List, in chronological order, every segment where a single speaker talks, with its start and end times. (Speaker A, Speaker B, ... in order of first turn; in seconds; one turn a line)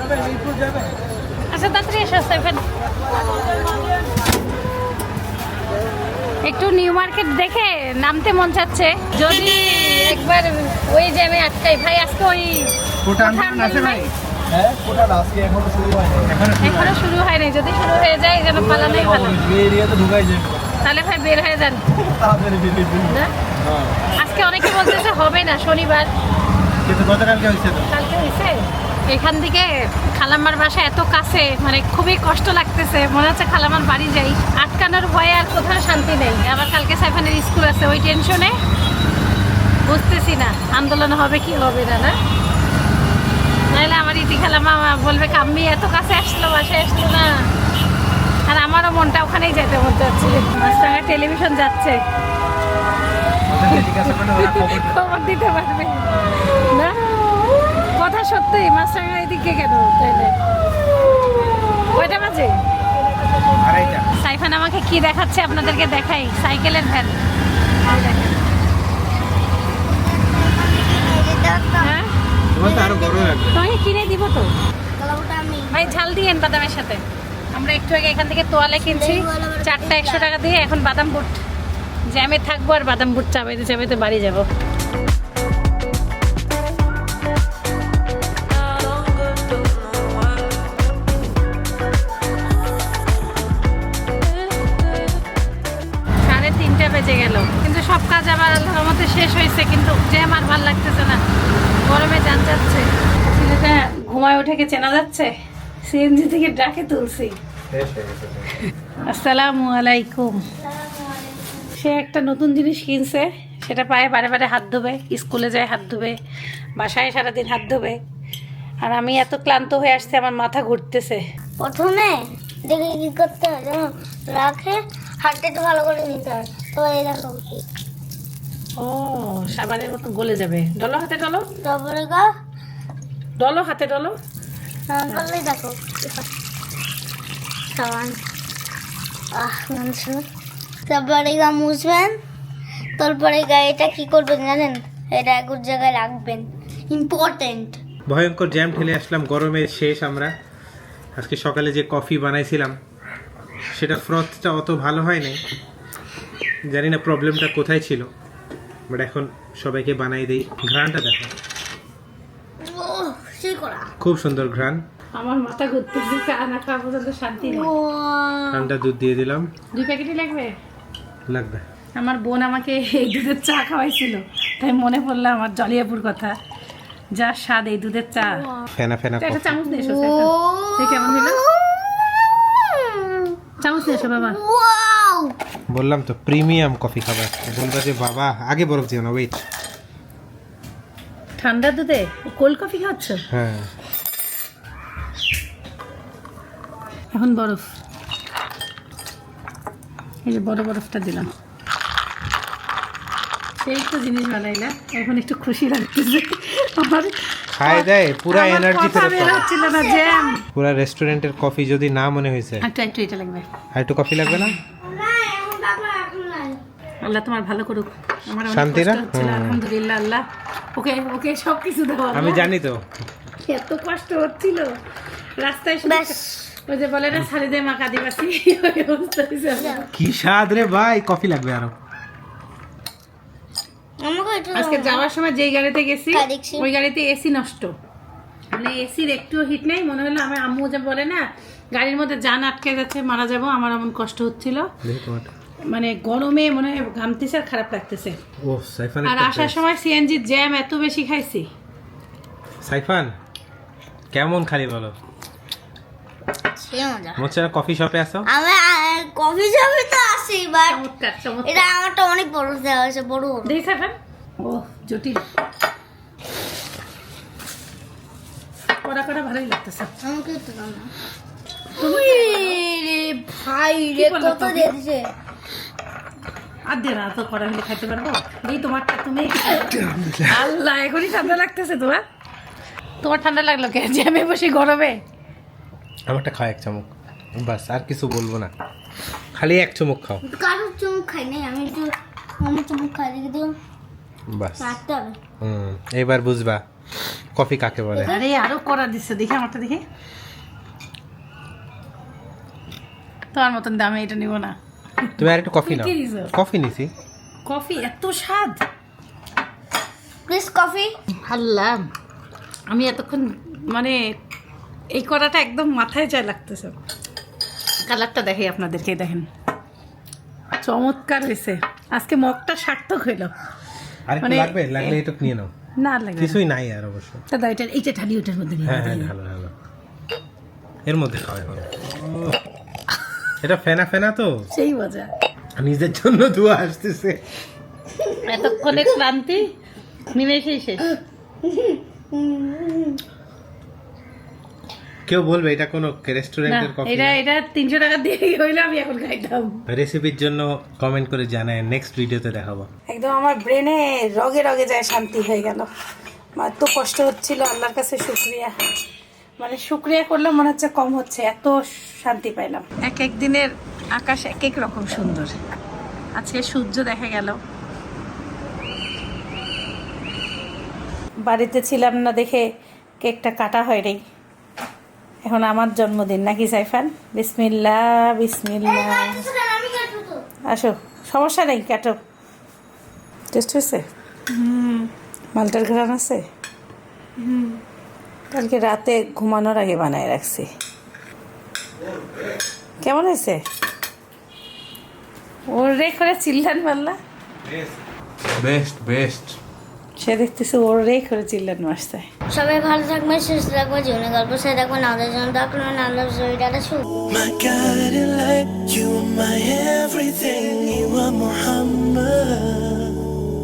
Speaker A: 1.5-2.6
Speaker A: 6.4-14.1
Speaker B: 13.0-14.1
Speaker C: 14.5-16.3
Speaker B: 16.2-16.9
Speaker A: 16.6-19.4
Speaker C: 18.6-20.7
Speaker A: 20.8-21.8
Speaker C: 22.0-23.2
Speaker A: 23.1-23.3
Speaker B: 23.6-24.0
Speaker A: 24.2-26.1
Speaker B: 26.9-27.9
Speaker A: 27.9-38.6
Speaker A: 39.9-42.2
Speaker A: 43.7-47.5
Speaker A: 48.5-52.0
Speaker B: 53.5-55.0
Speaker A: 54.4-57.0
Speaker A: 57.8-60.3
Speaker A: 61.9-62.6
Speaker B: 63.6-64.1
Speaker A: 64.1-67.2
Speaker A: 67.8-68.5
Speaker D: 69.8-71.9
Speaker A: 71.8-72.1
Speaker B: 72.5-73.6
Speaker D: 72.6-73.2
Speaker A: 73.5-74.5
Speaker D: 75.0-75.8
Speaker A: 75.7-81.4
Speaker D: 78.9-80.3
Speaker A: 82.1-84.5
Speaker A: 88.7-89.9
Speaker A: 96.2-101.2
Speaker A: 101.8-105.3
Speaker A: 105.8-107.4
Speaker B: 107.7-108.5
Speaker A: 109.1-110.5
Speaker D: 110.6-111.7
Speaker A: 111.8-116.2
Speaker A: 116.8-118.0
Speaker A: 118.8-121.2
Speaker D: 121.6-127.6
Speaker A: 128.8-131.5
Speaker D: 131.6-132.3
Speaker A: 133.4-134.2
Speaker D: 134.9-136.2
Speaker D: 137.7-138.2
Speaker D: 139.3-140.2
Speaker D: 140.9-142.2
Speaker D: 143.0-147.8
Speaker B: 148.1-150.3
Speaker B: 151.2-152.8
Speaker B: 153.7-155.4
Speaker B: 156.7-158.1
Speaker B: 158.9-161.3
Speaker D: 162.6-163.9
Speaker B: 164.0-164.8
Speaker A: 165.2-167.7
Speaker D: 167.4-168.7
Speaker B: 168.5-169.5
Speaker A: 169.7-170.6
Speaker B: 171.3-171.6
Speaker A: 172.0-176.3
Speaker A: 177.1-178.5
Speaker B: 178.7-179.6
Speaker A: 179.2-181.4
Speaker D: 179.7-181.7
Speaker D: 182.5-185.3
Speaker A: 183.6-184.4
Speaker B: 185.7-189.4
Speaker A: 191.4-193.3
Speaker B: 193.3-193.7
Speaker A: 197.1-197.7
Speaker A: 200.2-201.3
Speaker A: 203.6-210.4
Speaker B: 207.6-209.5
Speaker D: 209.4-210.3
Speaker B: 210.6-212.7
Speaker A: 212.6-213.5
Speaker B: 213.8-214.6
Speaker D: 214.8-216.6
Speaker A: 217.0-222.5
Speaker B: 218.5-219.6
Speaker B: 222.1-222.9
Speaker A: 223.4-224.8
Speaker A: 225.4-229.9
Speaker D: 225.8-226.5
Speaker D: 229.6-229.9
Speaker B: 229.9-231.8
Speaker D: 234.0-235.0
Speaker A: 234.6-237.8
Speaker D: 236.1-236.7
Speaker A: 238.5-244.7
Speaker B: 244.8-245.3
Speaker A: 245.7-248.2
Speaker B: 248.4-249.6
Speaker A: 249.1-251.5
Speaker B: 252.6-253.1
Speaker B: 254.1-255.0
Speaker D: 256.5-257.2
Speaker B: 257.2-258.3
Speaker D: 258.3-260.8
Speaker A: 260.7-261.7
Speaker D: 261.4-263.6
Speaker A: 263.4-265.2
Speaker A: 268.8-269.9
Speaker D: 270.0-270.9
Speaker A: 271.8-272.6
Speaker D: 271.8-275.1
Speaker A: 274.0-274.7
Speaker A: 276.7-282.0
Speaker B: 279.6-280.5
Speaker A: 283.0-285.0
Speaker B: 286.1-288.5
Speaker B: 289.4-290.2
Speaker D: 290.2-293.6
Speaker B: 294.3-294.8
Speaker D: 294.6-295.2
Speaker B: 295.4-296.6
Speaker B: 297.4-298.1
Speaker D: 297.9-298.2
Speaker A: 298.1-299.8
Speaker A: 303.3-306.3
Speaker B: 305.2-306.9
Speaker A: 307.5-308.6
Speaker D: 310.3-310.9
Speaker A: 311.2-311.9
Speaker A: 312.7-314.2
Speaker A: 314.9-316.8
Speaker A: 317.9-319.3
Speaker A: 320.6-323.3
Speaker B: 324.1-325.5
Speaker A: 324.2-325.0
Speaker A: 325.8-326.4
Speaker B: 326.2-327.2
Speaker A: 327.3-329.1
Speaker B: 328.6-329.5
Speaker B: 330.9-332.4
Speaker B: 333.4-334.5
Speaker A: 334.5-335.1
Speaker B: 335.6-337.2
Speaker A: 338.2-339.5
Speaker A: 340.1-341.0
Speaker D: 341.5-343.0
Speaker B: 345.1-347.2
Speaker A: 346.5-349.6
Speaker B: 349.7-352.7
Speaker A: 352.9-355.7
Speaker A: 356.4-358.6
Speaker A: 359.4-365.4
Speaker A: 366.2-367.4
Speaker A: 371.2-372.5
Speaker A: 373.0-374.0
Speaker A: 375.2-379.3
Speaker D: 378.6-380.2
Speaker A: 380.5-382.0
Speaker A: 383.3-386.2
Speaker A: 387.2-387.6
Speaker A: 388.3-390.5
Speaker A: 392.8-393.4
Speaker A: 395.5-397.0
Speaker B: 397.4-397.8
Speaker B: 398.4-399.4
Speaker A: 400.0-402.1
Speaker D: 402.3-406.9
Speaker E: 407.1-413.0